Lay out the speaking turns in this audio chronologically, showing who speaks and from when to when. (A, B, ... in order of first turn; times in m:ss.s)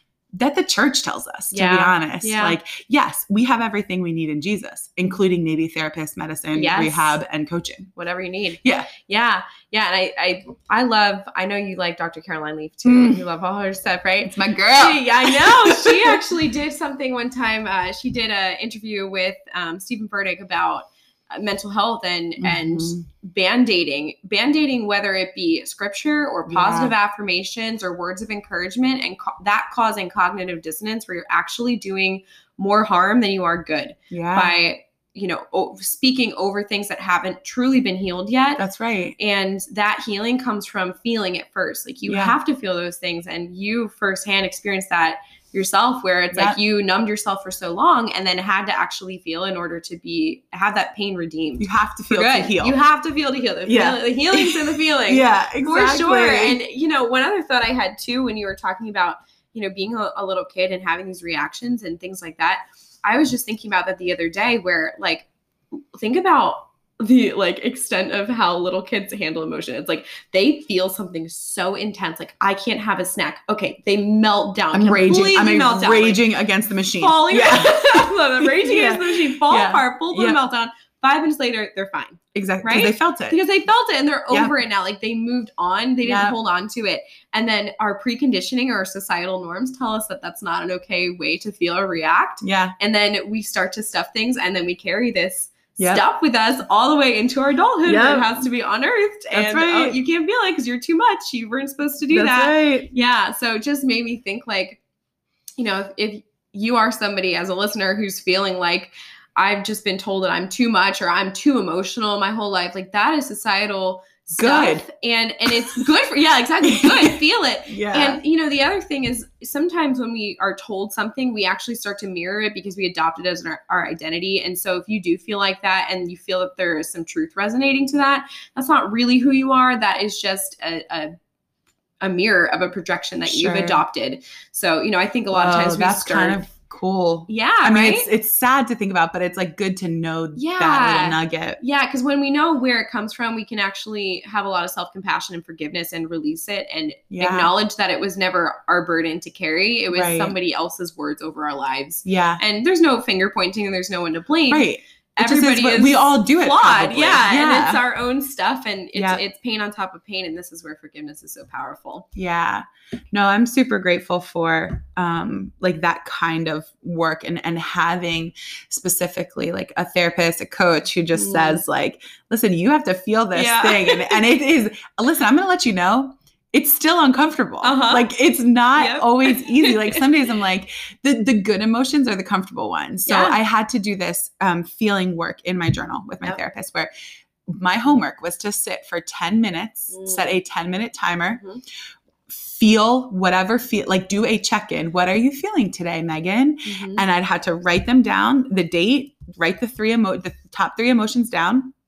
0:00.4-0:07.9 A
0:01.5-0:02.6 B
0:06.5-0:07.2 B
0:08.0-0:38.6 B
0:08.6-0:08.9 A
0:12.8-0:13.2 A
0:14.3-0:16.2 A
0:22.4-0:23.1 A
0:26.5-0:27.0 A
0:34.1-0:34.6 A
0:38.6-0:39.2 A
0:39.2-1:05.3 B
0:42.1-0:42.4 A
0:46.3-0:46.6 A
0:51.6-0:52.8 A
0:53.7-0:56.6 A
1:05.9-1:16.2 B
1:14.7-1:20.4 A
1:17.0-1:44.8 B
1:22.3-1:23.4 A
1:24.3-1:24.6 A
1:26.0-1:26.4 A
1:32.4-1:32.8 A
1:35.8-1:36.0 A
1:37.9-1:38.4 A
1:39.3-1:40.0 A
1:42.1-1:42.9 A
1:45.6-2:11.1 B
1:54.4-1:54.9 A
1:56.7-1:57.2 A
1:57.7-1:58.2 A
2:12.0-2:16.4 B
2:13.3-2:13.8 A
2:15.3-2:21.6 A
2:17.3-2:18.1 B
2:20.4-2:42.1 B
2:27.1-2:27.5 A
2:29.9-2:30.4 A
2:32.0-2:32.4 A
2:34.5-2:37.8 A
2:39.0-2:39.2 A
2:42.2-3:06.9 A
2:51.2-2:51.6 B
2:53.3-2:54.2 B
2:57.6-2:58.1 B
2:58.8-3:00.0 B
3:03.1-3:03.4 B
3:07.5-3:11.4 A
3:09.9-3:10.4 B
3:11.3-3:11.6 B
3:12.3-3:21.7 A
3:16.7-3:17.0 B